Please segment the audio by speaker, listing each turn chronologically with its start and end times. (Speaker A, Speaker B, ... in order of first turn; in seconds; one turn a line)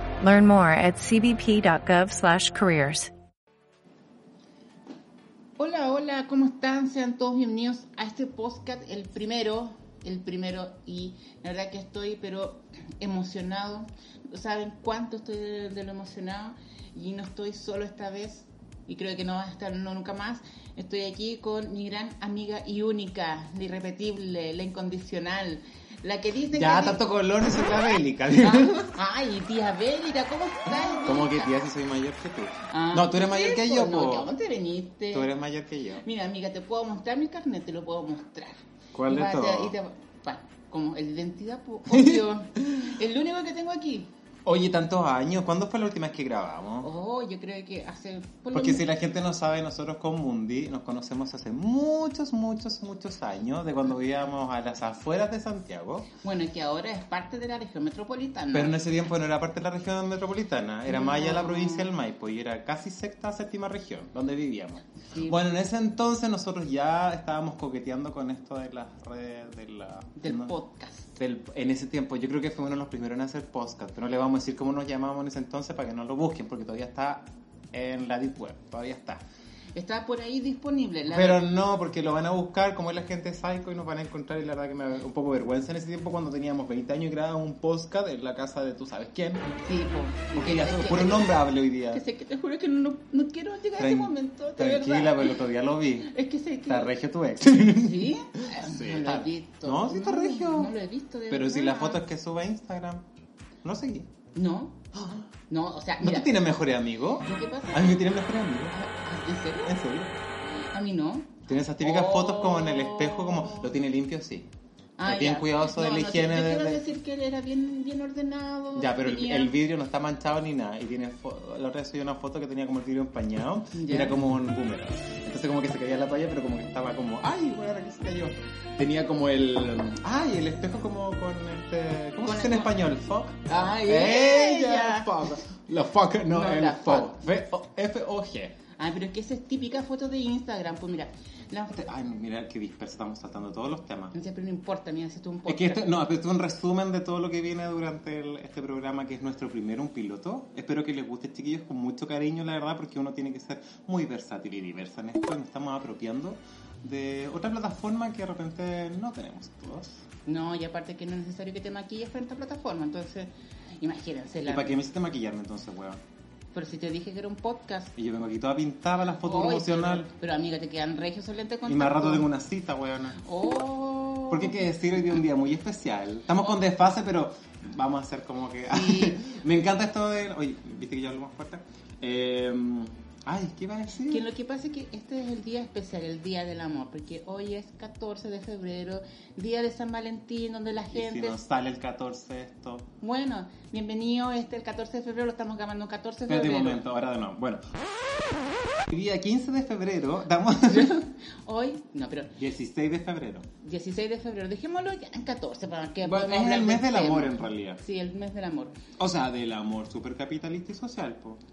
Speaker A: 0.2-3.1
Speaker B: 5.6-27.0
Speaker C: 26.5-28.9
Speaker B: 28.3-31.5
Speaker C: 30.9-34.3
Speaker B: 32.7-35.3
Speaker C: 35.1-36.0
Speaker B: 36.0-44.1
Speaker C: 38.9-39.8
Speaker C: 41.9-42.9
Speaker C: 44.5-46.9
Speaker B: 46.8-48.9
Speaker C: 48.5-56.1
Speaker B: 56.2-58.7
Speaker C: 58.5-70.5
Speaker B: 60.9-61.9
Speaker B: 65.1-65.4
Speaker B: 70.2-71.1
Speaker C: 71.2-79.2
Speaker B: 79.8-81.4
Speaker C: 81.1-89.5
Speaker B: 89.6-91.4
Speaker C: 90.3-92.0
Speaker B: 91.9-95.4
Speaker C: 93.8-96.1
Speaker B: 96.0-96.9
Speaker C: 96.7-100.7
Speaker B: 97.5-102.0
Speaker C: 101.3-103.0
Speaker C: 103.6-104.1
Speaker B: 104.3-104.8
Speaker C: 104.9-105.3
Speaker B: 105.5-106.3
Speaker C: 106.0-108.8
Speaker B: 107.2-108.1
Speaker B: 108.7-109.8
Speaker C: 109.6-110.1
Speaker B: 110.5-113.7
Speaker C: 111.5-114.5
Speaker B: 115.0-119.5
Speaker C: 115.0-116.8
Speaker C: 118.8-138.6
Speaker B: 123.7-124.2
Speaker B: 132.2-132.7
Speaker B: 133.5-135.3
Speaker B: 136.3-137.2
Speaker B: 138.8-141.7
Speaker C: 141.7-144.2
Speaker B: 144.1-145.9
Speaker C: 145.5-160.0
Speaker B: 160.3-164.8
Speaker C: 164.4-166.0
Speaker B: 166.5-167.9
Speaker C: 168.0-170.1
Speaker B: 169.2-172.3
Speaker C: 171.7-173.2
Speaker B: 173.2-174.7
Speaker C: 174.3-184.2
Speaker B: 178.7-179.2
Speaker B: 184.1-191.4
Speaker C: 190.9-192.9
Speaker B: 193.0-196.8
Speaker C: 196.3-198.3
Speaker C: 198.9-201.0
Speaker B: 200.6-202.4
Speaker C: 202.4-203.5
Speaker B: 203.6-208.8
Speaker C: 206.0-207.8
Speaker C: 209.0-211.4